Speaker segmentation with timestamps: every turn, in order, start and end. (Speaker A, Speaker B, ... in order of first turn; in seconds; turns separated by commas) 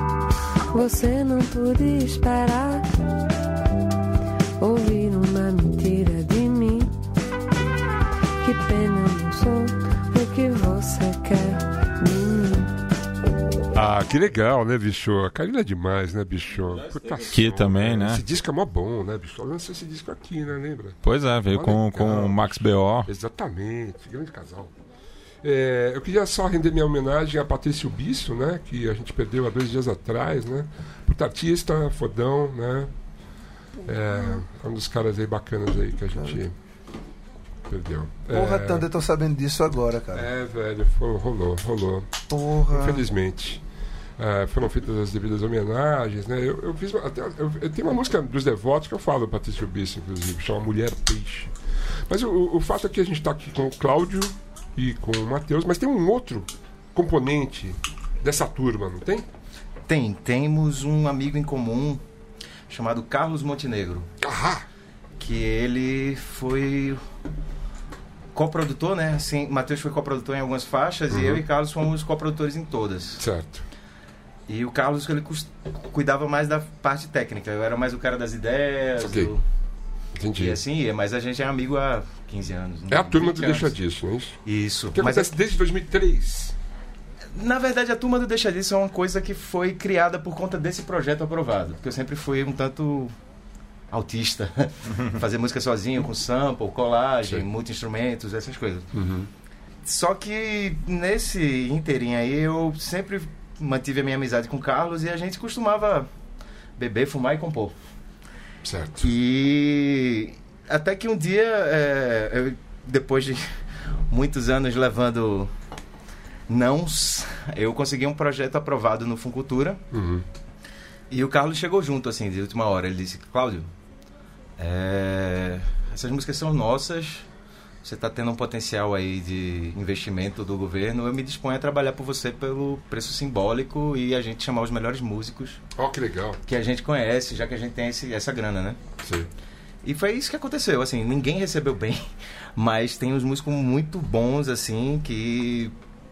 Speaker A: 0.7-2.9, Speaker A: 4.6-6.9, Speaker A: 8.4-12.8, Speaker B: 13.7-21.0, Speaker C: 17.3-18.2, Speaker C: 21.0-23.1, Speaker B: 21.5-24.7, Speaker B: 25.4-32.9, Speaker B: 33.8-36.5, Speaker B: 37.7-38.9, Speaker D: 38.3-40.3, Speaker B: 40.1-42.1, Speaker D: 42.3-43.0, Speaker B: 42.7-43.6, Speaker B: 44.2-51.5, Speaker B: 52.1-59.3, Speaker E: 59.9-62.0, Speaker E: 62.7-64.1, Speaker B: 64.2-64.7, Speaker E: 65.2-67.0, Speaker E: 68.3-73.2, Speaker B: 71.1-71.4, Speaker B: 73.2-73.7, Speaker E: 74.5-79.4, Speaker B: 79.0-79.3, Speaker B: 80.2-80.6, Speaker E: 80.4-83.8, Speaker B: 82.9-84.4, Speaker E: 84.5-85.3, Speaker B: 85.0-86.5, Speaker E: 87.3-93.1, Speaker E: 93.9-98.9, Speaker B: 98.9-99.3, Speaker E: 99.8-106.1, Speaker E: 106.8-107.8, Speaker B: 108.6-109.1, Speaker E: 109.0-113.5, Speaker E: 114.1-115.5, Speaker E: 116.5-119.8, Speaker B: 119.9-120.2, Speaker E: 121.1-123.7, Speaker E: 124.6-127.3, Speaker E: 127.8-135.6, Speaker B: 135.8-136.4, Speaker E: 136.5-138.8, Speaker B: 139.0-139.3, Speaker E: 139.8-145.7